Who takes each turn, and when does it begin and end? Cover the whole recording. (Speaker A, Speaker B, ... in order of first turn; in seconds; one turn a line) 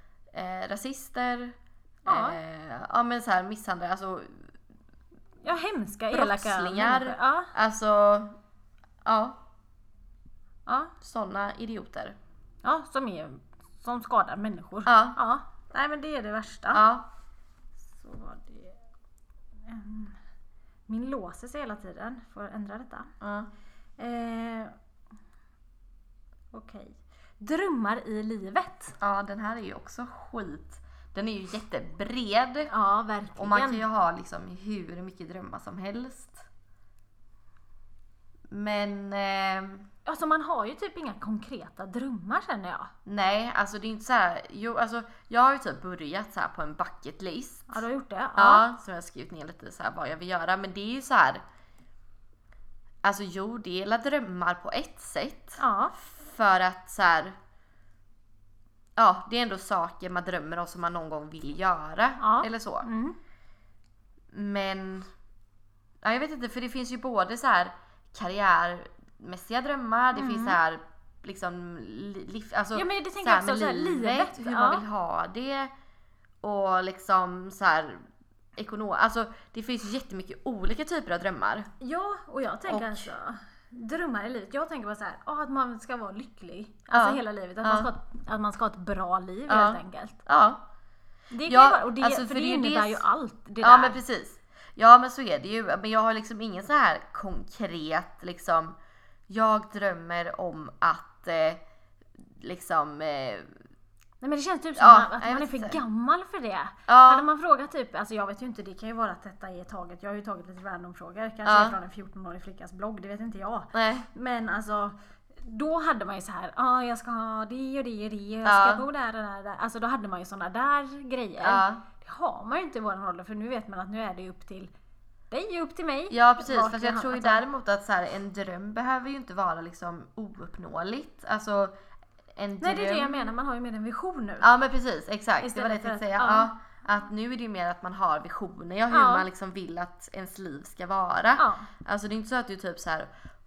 Speaker A: 0.3-4.5
Speaker B: 2.1-2.4
Speaker B: 5.4-7.5
Speaker A: 6.1-8.4
Speaker A: 9.1-9.4
Speaker B: 10.7-10.9
Speaker A: 11.0-12.2
Speaker B: 12.6-16.8
Speaker A: 14.9-15.2
Speaker A: 16.7-17.1
Speaker B: 17.9-18.8
Speaker B: 19.7-20.2
Speaker B: 20.9-23.1
Speaker A: 23.2-23.5
Speaker B: 24.0-24.8
Speaker B: 26.5-29.0
Speaker A: 29.0-32.7
Speaker B: 32.7-33.9
Speaker A: 33.4-36.5
Speaker A: 38.5-39.9
Speaker B: 40.1-42.9
Speaker A: 43.0-47.8
Speaker B: 47.7-48.7
Speaker A: 48.4-51.4
Speaker A: 53.0-57.4
Speaker B: 55.6-56.0
Speaker A: 59.0-62.9
Speaker B: 62.2-63.2
Speaker A: 64.3-65.1
Speaker A: 66.0-75.7
Speaker B: 70.1-70.6
Speaker B: 72.7-74.8
Speaker A: 76.4-78.0
Speaker A: 78.6-81.7
Speaker B: 81.8-90.2
Speaker A: 82.7-83.1
Speaker A: 86.9-87.9
Speaker A: 89.5-90.6
Speaker B: 91.3-94.0
Speaker A: 91.5-93.0
Speaker A: 93.6-98.8
Speaker A: 99.3-101.6
Speaker A: 102.2-103.5
Speaker B: 104.2-124.7
Speaker A: 104.8-105.8
Speaker A: 106.9-107.3
Speaker A: 111.5-111.8
Speaker A: 113.7-114.1
Speaker A: 118.5-118.8
Speaker A: 121.4-121.8
Speaker B: 125.3-127.4
Speaker A: 126.1-131.7
Speaker A: 132.3-133.3
Speaker B: 132.6-134.5
Speaker A: 134.4-143.1
Speaker B: 135.4-136.5
Speaker B: 138.9-139.3
Speaker B: 141.4-141.7